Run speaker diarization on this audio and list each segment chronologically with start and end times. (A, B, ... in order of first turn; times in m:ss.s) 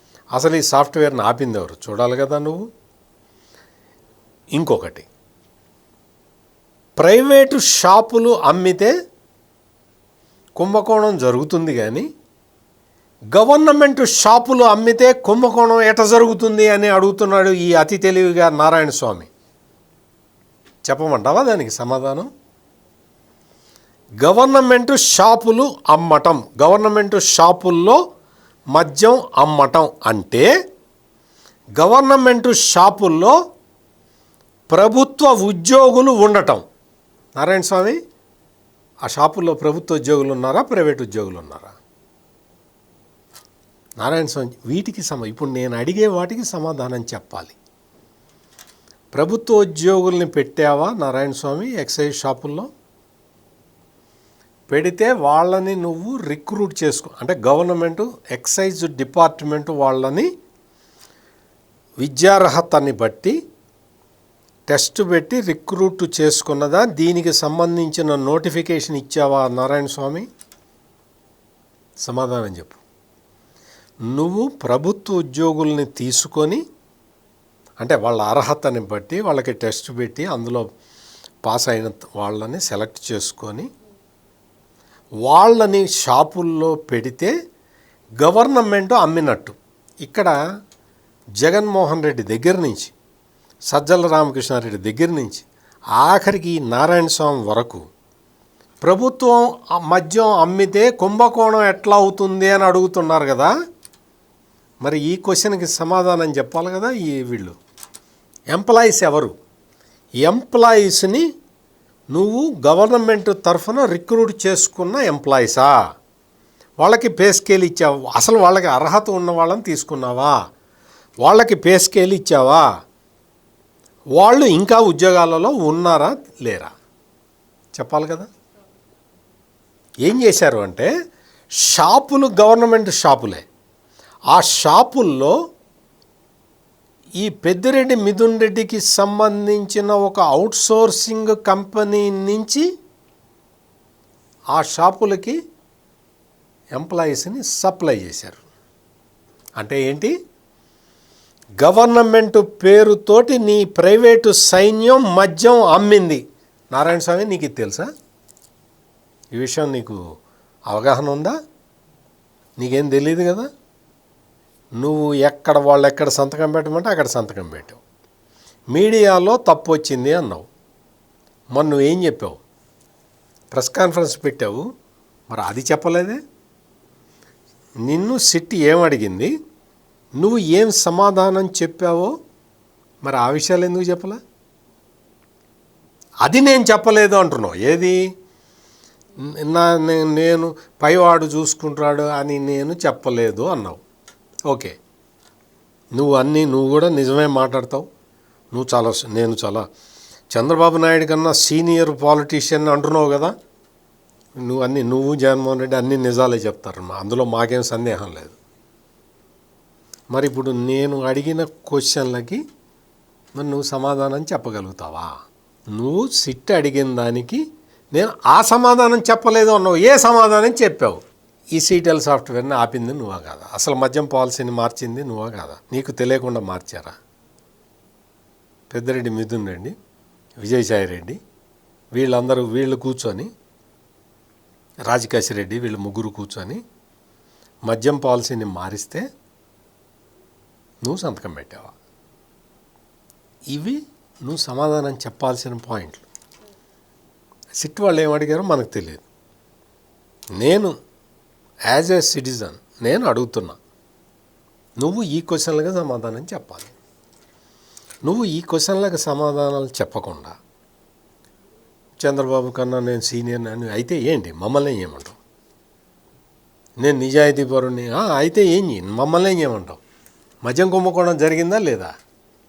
0:00.3-0:02.7 A
0:04.6-0:05.1 A
0:07.0-0:08.9 A
0:10.6-0:12.1 A
0:13.3-0:19.3 A
0:20.9-0:22.3 A
0:24.2-0:28.0 A
0:28.8-0:30.5 A
0:31.8-0:33.4 A
0:34.7-0:36.6 A
0:37.4-0:38.0 A
0:39.0-0:41.8 A
0:44.0-0:47.6 A
0:49.1-0:52.7 A
0:54.7-1:00.3 A
1:02.0-1:03.4 A
1:04.7-1:10.3 A
1:12.0-1:12.8 A
1:14.1-1:16.6 A
1:17.8-1:20.6 A
1:21.4-1:23.7 A
1:25.2-1:27.3 A
1:28.2-1:30.4 A
1:31.4-1:32.9 A
1:33.7-1:35.5 A
1:36.0-1:37.8 A
1:38.8-1:43.5 A
1:44.8-1:47.6 A
1:48.5-1:49.4 A
1:50.2-1:51.2 A
1:52.1-1:55.8 A
1:56.8-2:00.4 A
2:01.2-2:02.6 A
2:04.2-2:06.7 A
2:07.8-2:08.3 A
2:10.1-2:10.9 A
2:11.6-2:13.4 A
2:14.3-2:15.4 A
2:17.2-2:22.6 A
2:24.5-2:25.4 A
2:26.8-2:28.4 A
2:29.6-2:30.1 A
2:31.6-2:37.9 A
2:39.3-2:40.0 A
2:40.7-2:41.4 A
2:42.6-2:43.5 A
2:44.8-2:47.8 A
2:48.7-2:50.5 A
2:51.6-2:52.4 A
2:53.5-2:54.6 A
2:55.3-2:56.2 A
2:57.9-2:59.3 A
3:00.2-3:02.1 A
3:03.0-3:04.2 A
3:06.2-3:08.0 A
3:09.2-3:13.8 A
3:14.5-3:14.8 A
3:16.0-3:17.8 A
3:18.5-3:19.7 A
3:20.3-3:23.3 A
3:24.4-3:28.4 A
3:30.1-3:32.4 A
3:33.4-3:35.1 A
3:35.7-3:37.4 A
3:37.9-3:41.0 A
3:41.6-3:47.0 A
3:48.7-3:49.8 A
3:50.4-3:51.2 A
3:52.0-3:53.3 A
3:54.9-3:56.6 A
3:57.7-3:59.0 A
4:00.8-4:01.8 A
4:03.5-4:06.1 A
4:07.6-4:09.0 A
4:10.4-4:10.7 A
4:11.7-4:13.6 A
4:14.8-4:16.7 A
4:18.0-4:20.3 A
4:22.0-4:25.2 A
4:26.8-4:29.8 A
4:30.4-4:31.9 A